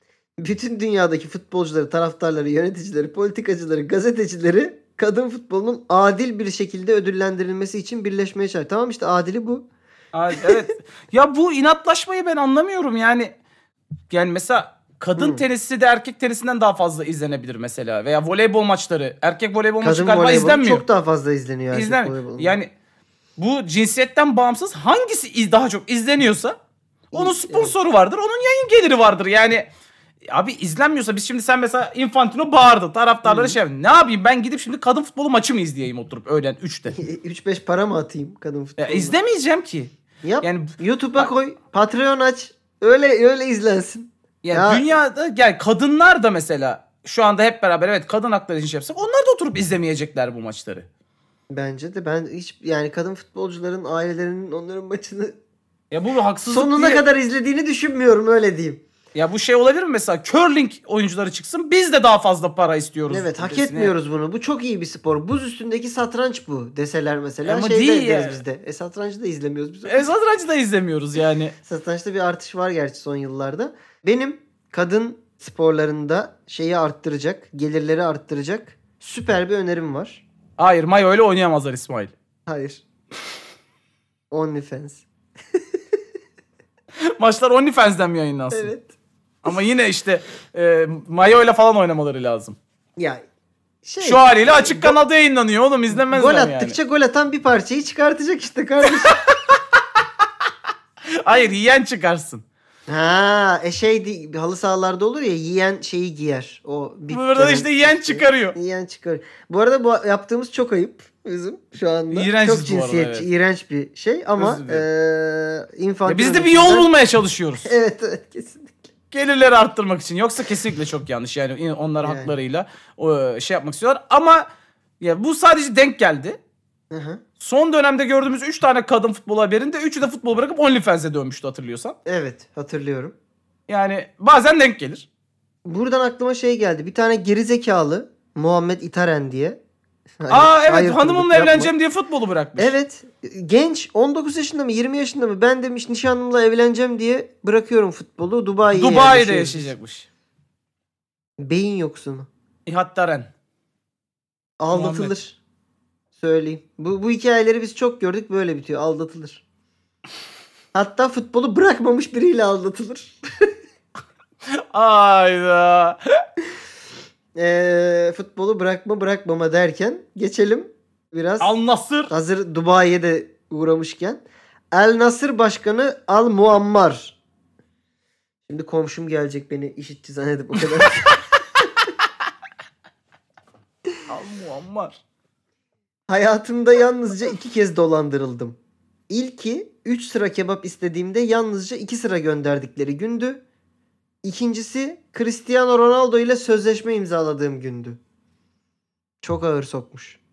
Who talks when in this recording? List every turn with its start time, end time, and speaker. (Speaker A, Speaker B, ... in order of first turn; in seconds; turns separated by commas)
Speaker A: 0.4-9.7, Speaker B: 10.1-13.3, Speaker B: 14.1-20.9, Speaker A: 15.2-15.4, Speaker A: 19.8-22.6, Speaker B: 21.7-22.7, Speaker B: 23.4-26.6, Speaker A: 27.1-27.8, Speaker B: 27.1-29.7, Speaker B: 30.3-37.0, Speaker A: 33.2-33.6, Speaker A: 36.9-39.1, Speaker B: 38.8-41.3, Speaker A: 40.2-44.9, Speaker B: 44.4-50.9, Speaker A: 51.5-55.4, Speaker B: 55.9-57.0, Speaker A: 56.4-58.8, Speaker B: 59.1-63.9, Speaker A: 63.1-70.1, Speaker B: 67.5-68.4, Speaker B: 69.9-71.5, Speaker A: 71.7-80.2, Speaker B: 80.6-82.1, Speaker A: 82.5-82.8, Speaker A: 84.3-85.0, Speaker B: 87.2-88.7, Speaker A: 88.5-88.9, Speaker B: 89.4-92.6, Speaker A: 93.0-93.2, Speaker A: 93.8-95.0, Speaker B: 94.0-96.8, Speaker A: 95.9-99.2, Speaker B: 99.0-99.5, Speaker B: 101.1-102.4, Speaker A: 102.9-116.9, Speaker B: 107.1-108.6, Speaker B: 112.1-113.3, Speaker B: 114.4-114.8, Speaker B: 116.1-117.7, Speaker A: 117.7-118.8, Speaker B: 119.1-124.5, Speaker A: 122.0-122.3, Speaker B: 125.0-126.4, Speaker A: 126.9-127.2, Speaker B: 127.4-132.0, Speaker A: 132.1-133.2, Speaker B: 133.7-135.1, Speaker A: 135.7-139.6, Speaker A: 140.2-141.7, Speaker B: 140.3-142.8, Speaker A: 142.6-149.7, Speaker B: 148.7-150.1, Speaker A: 151.4-152.3, Speaker B: 152.7-153.3, Speaker A: 154.6-155.4, Speaker B: 154.7-155.1, Speaker A: 156.2-159.4, Speaker A: 160.7-163.5, Speaker B: 164.7-166.0, Speaker A: 167.3-171.5, Speaker B: 171.4-172.1, Speaker A: 172.1-177.2, Speaker A: 178.5-181.6, Speaker B: 184.1-185.0, Speaker A: 186.1-188.6, Speaker A: 189.1-193.4, Speaker A: 194.2-198.0, Speaker A: 199.2-200.2